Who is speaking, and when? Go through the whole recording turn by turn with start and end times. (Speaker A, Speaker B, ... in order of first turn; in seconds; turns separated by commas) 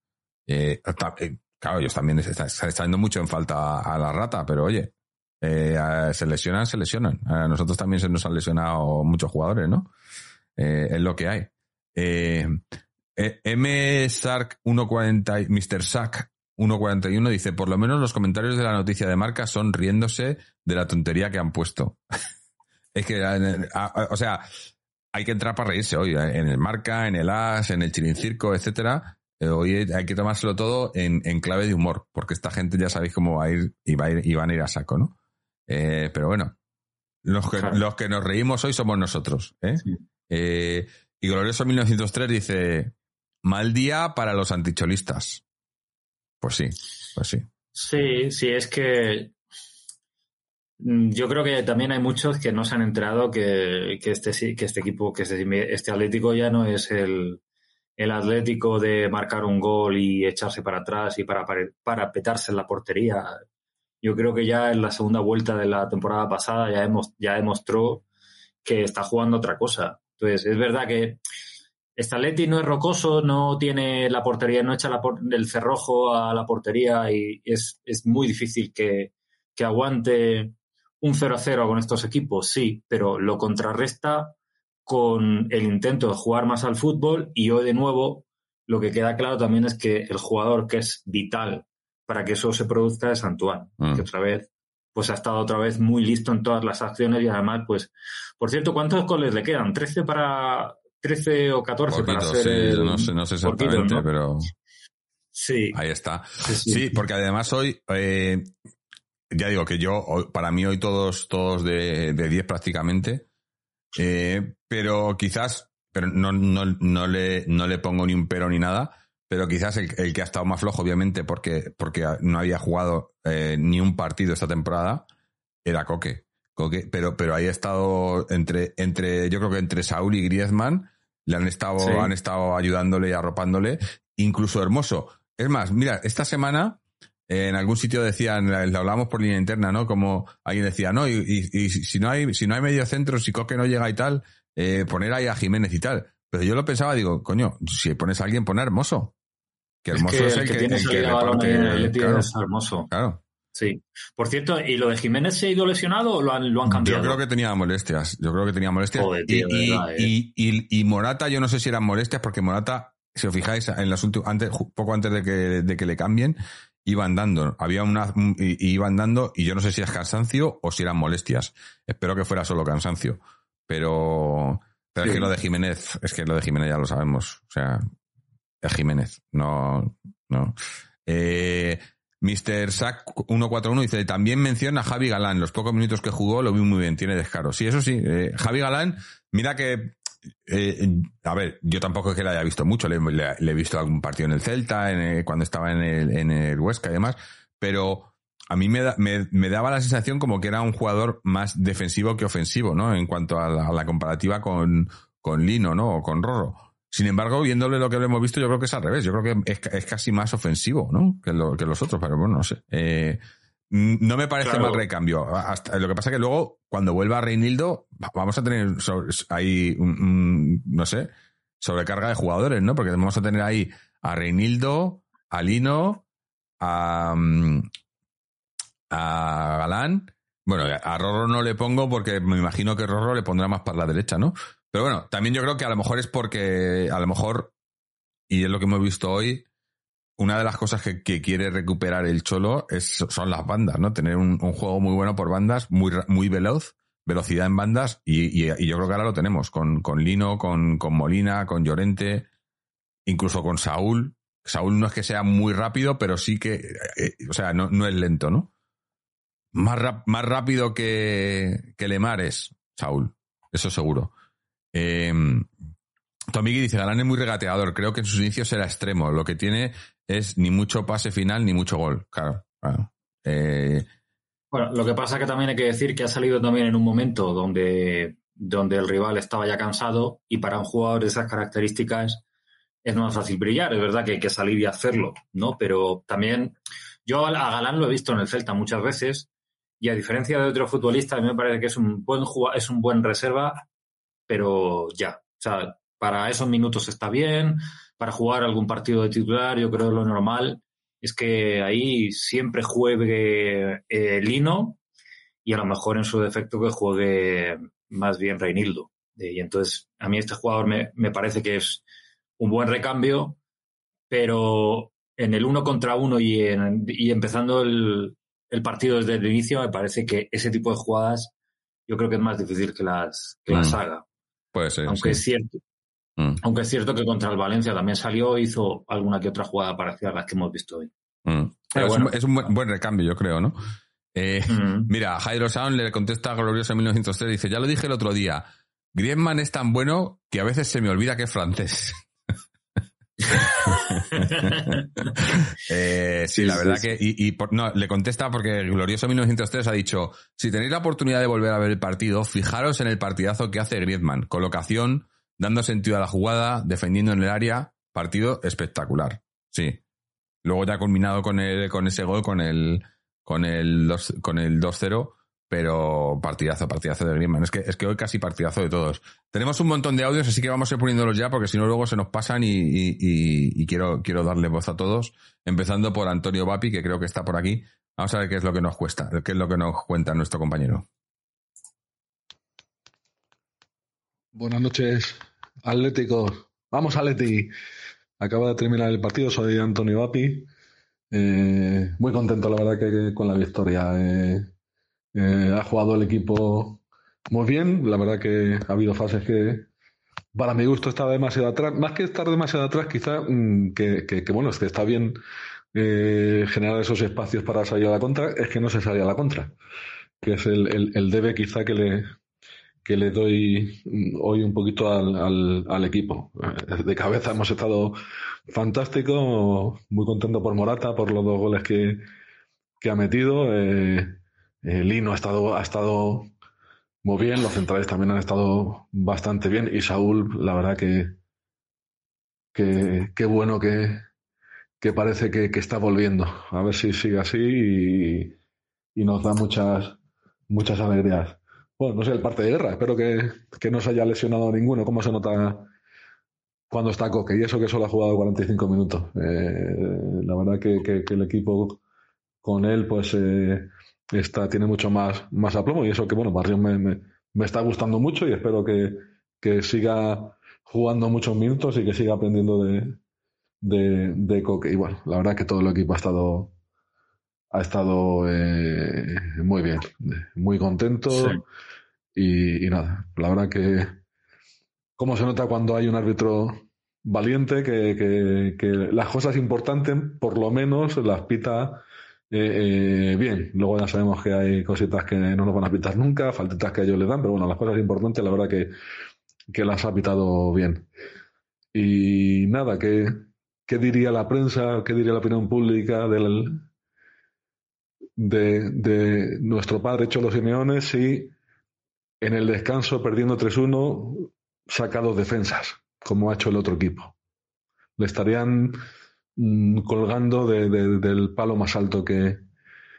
Speaker A: 0.5-9.9, Speaker A: 10.6-12.6, Speaker A: 13.2-22.0, Speaker A: 22.9-24.4, Speaker A: 25.1-35.1, Speaker A: 35.7-36.5, Speaker A: 37.2-45.4, Speaker A: 46.4-47.5, Speaker B: 47.7-49.3, Speaker B: 50.8-57.4, Speaker B: 58.0-63.4, Speaker B: 64.0-68.0, Speaker B: 68.6-71.2, Speaker B: 72.0-84.3, Speaker B: 84.8-104.0, Speaker A: 101.9-104.5, Speaker B: 105.3-105.8, Speaker A: 105.7-108.5, Speaker B: 106.4-107.0, Speaker A: 109.3-113.2, Speaker A: 114.0-125.0, Speaker A: 125.6-149.1, Speaker B: 131.8-132.1, Speaker A: 149.8-152.3, Speaker B: 149.9-152.9, Speaker A: 152.9-153.2, Speaker B: 153.5-157.2, Speaker A: 156.7-177.8, Speaker B: 158.9-160.1, Speaker B: 175.0-175.3, Speaker A: 178.6-221.1, Speaker B: 214.4-214.8, Speaker A: 221.6-226.0, Speaker A: 226.6-227.7, Speaker A: 228.9-237.5, Speaker A: 238.3-239.4, Speaker A: 240.2-252.3, Speaker A: 253.1-258.5, Speaker A: 259.5-264.1, Speaker A: 264.7-265.5, Speaker A: 266.3-273.9, Speaker B: 274.5-282.2, Speaker B: 282.8-286.5, Speaker B: 287.1-289.3, Speaker B: 289.8-293.6, Speaker B: 294.3-304.8, Speaker B: 305.4-311.8, Speaker B: 312.4-313.4, Speaker B: 314.1-321.3, Speaker B: 321.9-324.0, Speaker A: 323.5-323.8, Speaker A: 324.5-325.2, Speaker B: 324.9-325.6, Speaker B: 326.4-330.9, Speaker A: 331.2-333.6, Speaker B: 331.7-332.1, Speaker A: 334.1-342.0, Speaker B: 334.5-334.9, Speaker B: 343.2-345.1, Speaker A: 343.3-359.8, Speaker B: 346.3-346.9, Speaker A: 360.4-380.9, Speaker C: 384.3-387.5, Speaker C: 388.2-390.5, Speaker C: 391.1-394.5, Speaker C: 395.1-399.7, Speaker C: 400.3-405.2, Speaker C: 405.7-409.5, Speaker C: 410.2-412.1, Speaker C: 412.8-418.0, Speaker C: 418.5-422.0, Speaker C: 422.8-426.3, Speaker C: 427.0-431.2, Speaker C: 432.5-434.0, Speaker C: 434.8-438.4, Speaker C: 438.9-440.0, Speaker C: 440.5-445.7, Speaker C: 446.7-451.8, Speaker C: 452.4-463.0, Speaker C: 463.6-466.5, Speaker C: 467.5-471.4, Speaker B: 471.1-471.4, Speaker C: 472.1-474.0, Speaker C: 475.0-488.7, Speaker C: 489.5-490.9, Speaker C: 491.7-496.6, Speaker C: 498.2-501.3, Speaker C: 502.2-507.1, Speaker C: 508.0-508.8, Speaker C: 509.4-512.4